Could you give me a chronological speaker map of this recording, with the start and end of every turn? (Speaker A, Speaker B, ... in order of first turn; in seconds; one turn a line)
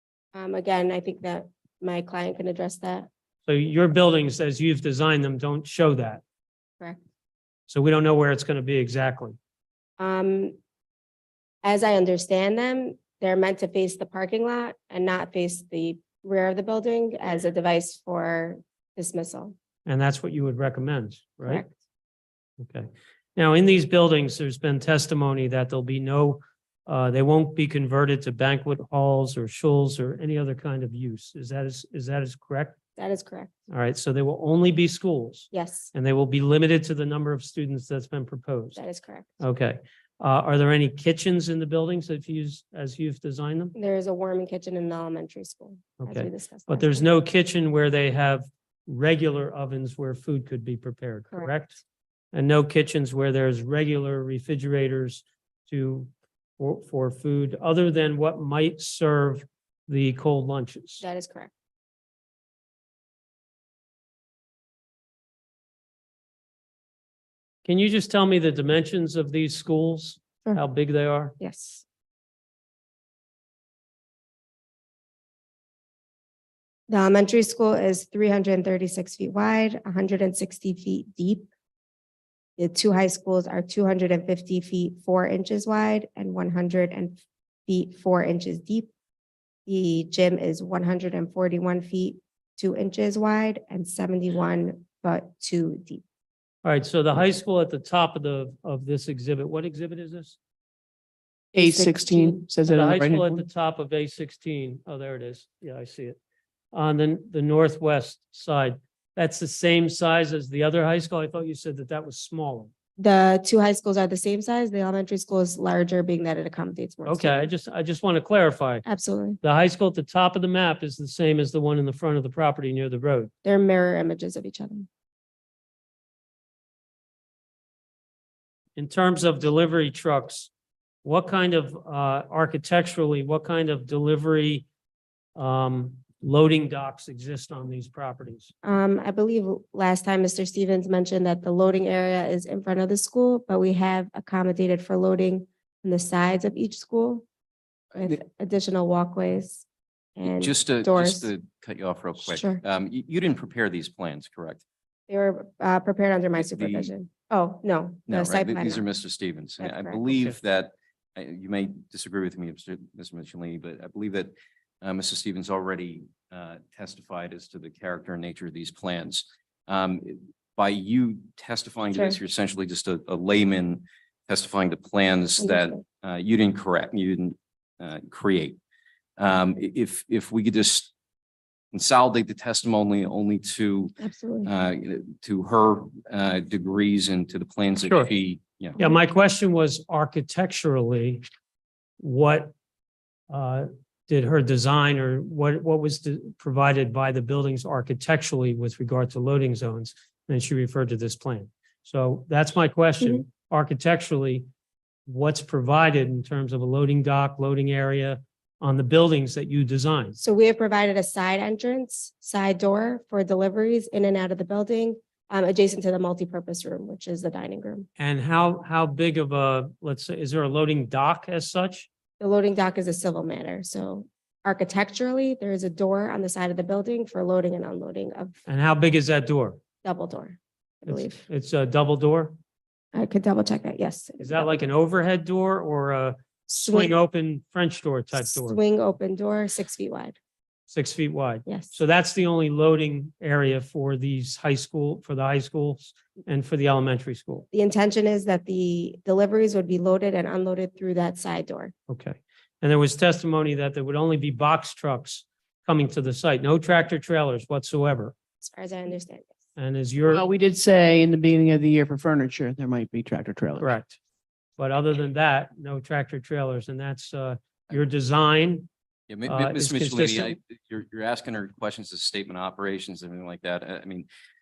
Speaker A: 0.3-3.1
Speaker B: 3.5-6.2
Speaker B: 7.7-9.4
Speaker A: 10.0-10.6
Speaker A: 11.6-19.5
Speaker B: 19.9-21.6
Speaker A: 21.4-21.7
Speaker B: 22.6-32.8
Speaker A: 33.0-33.5
Speaker B: 33.7-38.8
Speaker A: 35.5-35.9
Speaker A: 38.8-39.4
Speaker B: 39.4-43.7
Speaker A: 43.7-47.0
Speaker B: 46.0-51.8
Speaker B: 52.3-61.0
Speaker A: 61.0-61.5
Speaker B: 67.6-71.3
Speaker A: 71.4-71.8
Speaker A: 76.9-81.5
Speaker A: 82.6-88.9
Speaker A: 89.7-96.0
Speaker B: 96.6-100.4
Speaker C: 101.5-103.3
Speaker A: 101.6-102.3
Speaker B: 102.7-106.2
Speaker B: 106.7-112.7
Speaker A: 113.0-117.5
Speaker B: 117.0-118.8
Speaker A: 118.8-119.4
Speaker B: 119.4-123.3
Speaker A: 123.4-124.9
Speaker B: 128.8-130.5
Speaker B: 131.0-134.7
Speaker B: 135.3-138.5
Speaker A: 138.6-147.2
Speaker A: 147.9-149.6
Speaker A: 150.2-151.3
Speaker D: 150.2-154.6
Speaker A: 152.2-152.6
Speaker A: 155.1-158.8
Speaker D: 156.3-156.9
Speaker D: 158.1-178.6
Speaker A: 159.6-160.1
Speaker A: 171.9-172.2
Speaker A: 175.4-175.8
Speaker D: 179.2-180.9
Speaker D: 181.7-188.8
Speaker A: 184.0-184.5
Speaker B: 187.8-188.1
Speaker B: 188.8-191.2
Speaker B: 192.0-192.5
Speaker B: 193.3-204.4
Speaker B: 205.1-210.2
Speaker A: 210.2-217.9
Speaker B: 218.0-221.9
Speaker A: 222.2-228.4
Speaker B: 228.5-229.6
Speaker A: 229.8-231.2
Speaker B: 230.9-232.3
Speaker A: 232.9-234.5
Speaker B: 234.2-238.6
Speaker A: 236.5-236.9
Speaker A: 238.1-240.2
Speaker B: 240.7-247.4
Speaker A: 241.4-241.8
Speaker A: 247.5-251.7
Speaker B: 251.9-258.1
Speaker A: 258.4-259.4
Speaker B: 259.6-260.2
Speaker C: 260.1-263.7
Speaker B: 263.6-264.0
Speaker B: 264.6-268.7
Speaker D: 269.1-274.1
Speaker B: 269.2-270.4